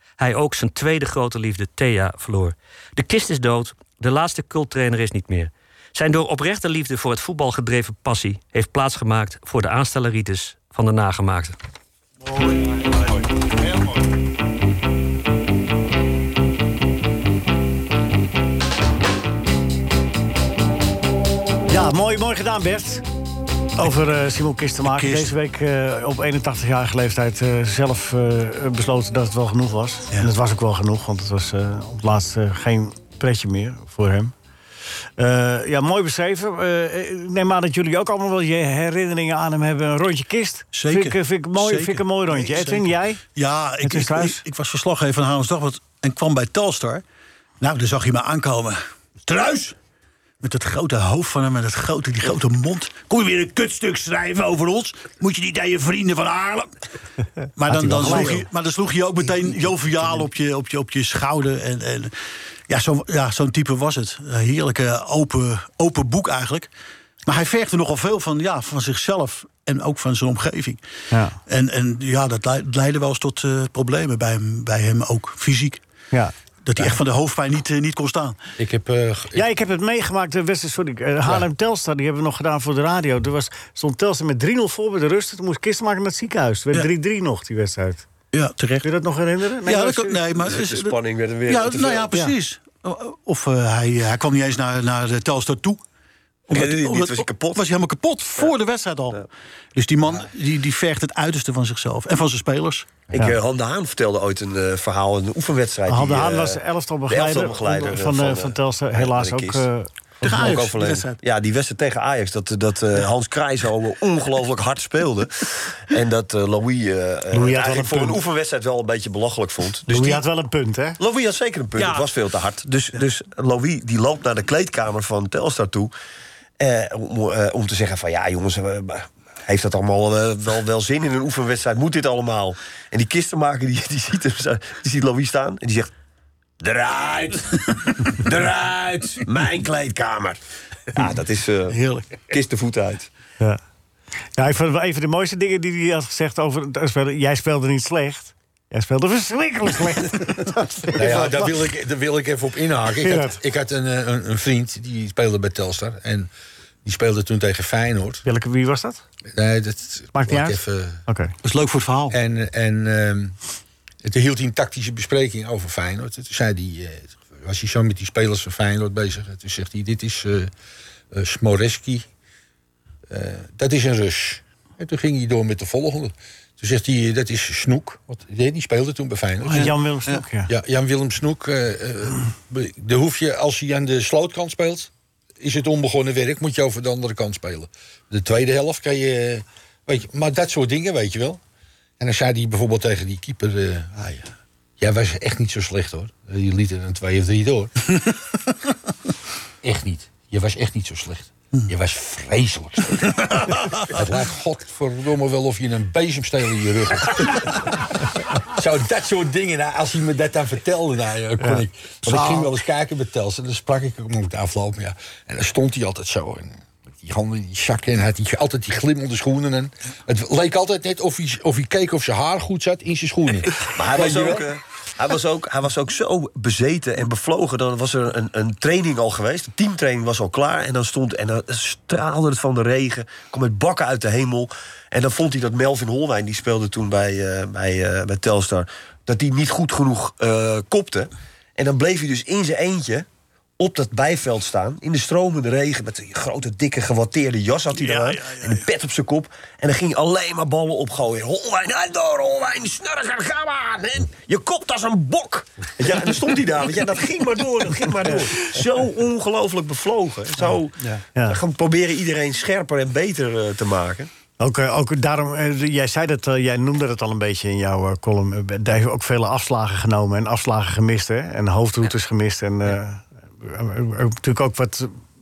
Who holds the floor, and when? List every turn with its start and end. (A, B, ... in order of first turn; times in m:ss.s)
0:00.2-0:11.6 A
0:21.7-0:23.0 B
0:23.8-0:34.3 B
0:24.9-0:25.3 C
0:35.2-0:43.2 B
0:40.7-0:47.0 C
0:43.8-0:44.4 B
0:47.6-0:49.7 C
0:50.4-0:56.7 C
0:57.6-1:02.1 C
0:57.7-0:58.4 B
1:02.7-1:06.7 C
1:07.2-1:10.8 C
1:11.1-1:11.4 B
1:11.4-1:15.8 C
1:16.6-1:18.4 C
1:18.6-1:19.4 D
1:19.3-1:28.0 B
1:28.3-1:28.9 C
1:28.8-1:30.2 B
1:29.6-1:35.8 C
1:30.3-1:32.2 E
1:36.5-1:39.2 C
1:36.5-1:37.7 E
1:39.7-1:43.0 C
1:43.1-1:49.6 E
1:45.9-1:50.5 B
1:50.2-1:51.2 C
1:50.3-2:00.2 E
1:57.3-1:58.2 B
1:59.9-2:01.0 B
2:01.0-2:05.9 E
2:06.6-2:15.9 E
2:16.6-2:20.4 E
2:20.9-2:23.1 E
2:21.8-2:22.0 C
2:24.4-2:31.5 B
2:30.9-2:36.3 D
2:33.0-2:33.4 B
2:36.8-2:38.2 D
2:38.2-2:39.0 B
2:39.3-2:41.0 D
2:40.1-2:41.3 B
2:41.4-2:42.2 C
2:42.1-2:43.4 D
2:44.0-2:50.5 D
2:51.1-2:52.0 D
2:53.1-2:59.7 D
2:59.4-3:00.5 B
2:59.5-3:00.2 C
3:00.5-3:11.4 D
3:12.0-3:14.3 D
3:14.8-3:17.9 D
3:19.6-3:44.4 D
3:43.7-4:03.0 E
4:03.6-4:24.1 E
4:07.7-4:08.6 C
4:24.4-4:35.0 B